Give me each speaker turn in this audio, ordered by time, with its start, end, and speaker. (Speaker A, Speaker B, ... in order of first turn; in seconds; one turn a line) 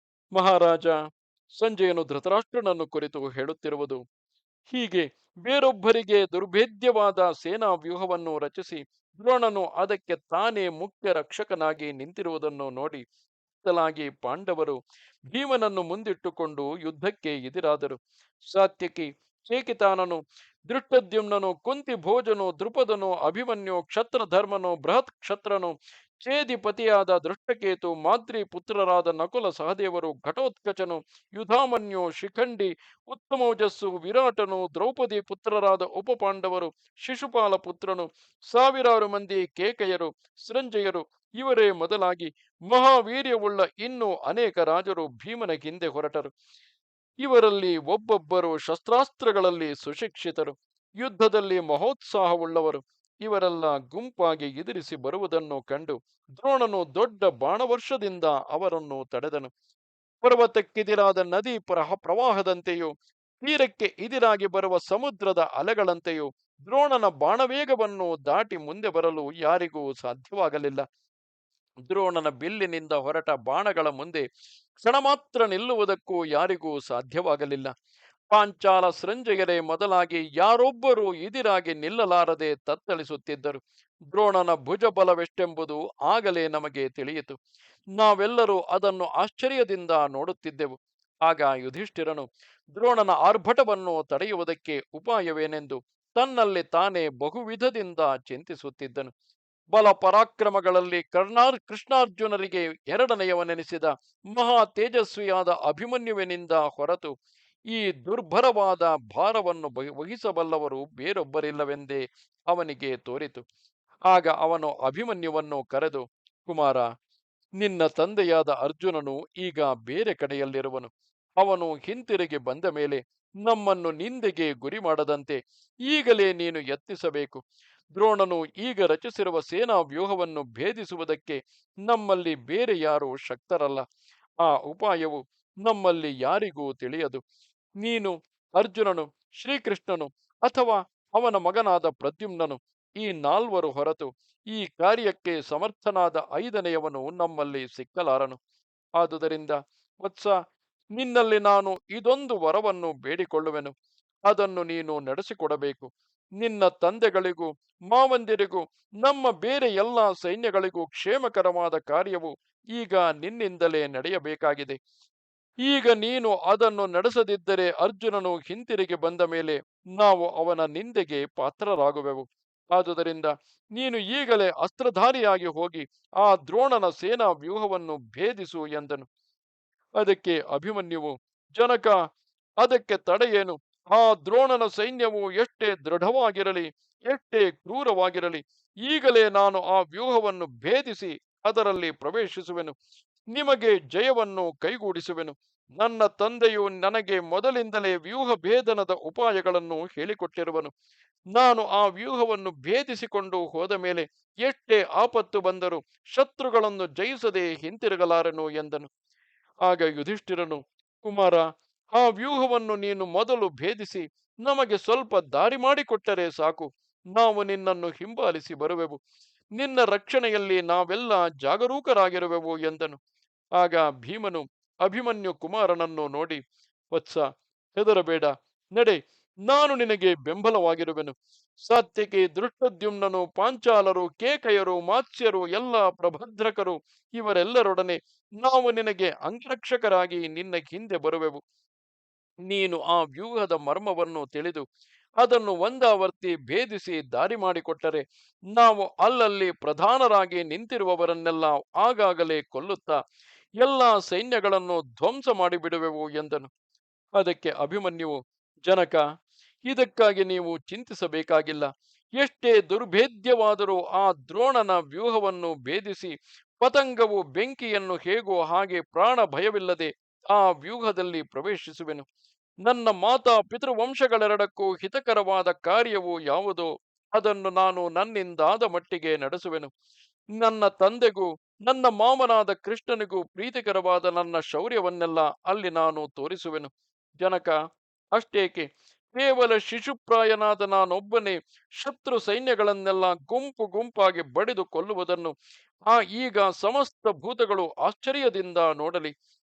Speaker A: 0.3-0.9
Speaker A: 1.5-4.0
Speaker A: 4.7-13.0
Speaker A: 13.6-14.8
Speaker A: 15.3-18.0
Speaker A: 18.5-46.3
Speaker A: 47.2-59.5
Speaker A: 60.2-70.8
Speaker A: 71.9-74.2
Speaker A: 74.8-77.7
Speaker A: 78.3-83.6
Speaker A: 84.1-87.4
Speaker A: 88.0-90.7
Speaker A: 91.2-99.1
Speaker A: 99.7-107.1
Speaker A: 107.7-113.4
Speaker A: 114.1-116.9
Speaker A: 117.6-127.4
Speaker A: 128.0-133.8
Speaker A: 134.4-137.2
Speaker A: 137.8-148.4
Speaker A: 149.0-150.3
Speaker A: 150.9-153.7
Speaker A: 154.3-164.8
Speaker A: 165.7-179.1
Speaker A: 180.0-181.9
Speaker A: 182.6-192.7
Speaker A: 193.3-200.7
Speaker A: 201.3-208.9
Speaker A: 209.7-211.4
Speaker A: 212.0-219.0
Speaker A: 219.6-223.0
Speaker A: 223.6-226.4
Speaker A: 226.9-227.2
Speaker A: 227.7-231.1
Speaker A: 231.7-241.4
Speaker A: 242.4-244.6
Speaker A: 245.2-248.0
Speaker A: 248.5-253.0
Speaker A: 253.6-256.5
Speaker A: 257.2-259.0
Speaker A: 259.6-272.1
Speaker A: 272.6-279.7
Speaker A: 280.4-287.5
Speaker A: 288.1-295.3
Speaker A: 295.9-299.1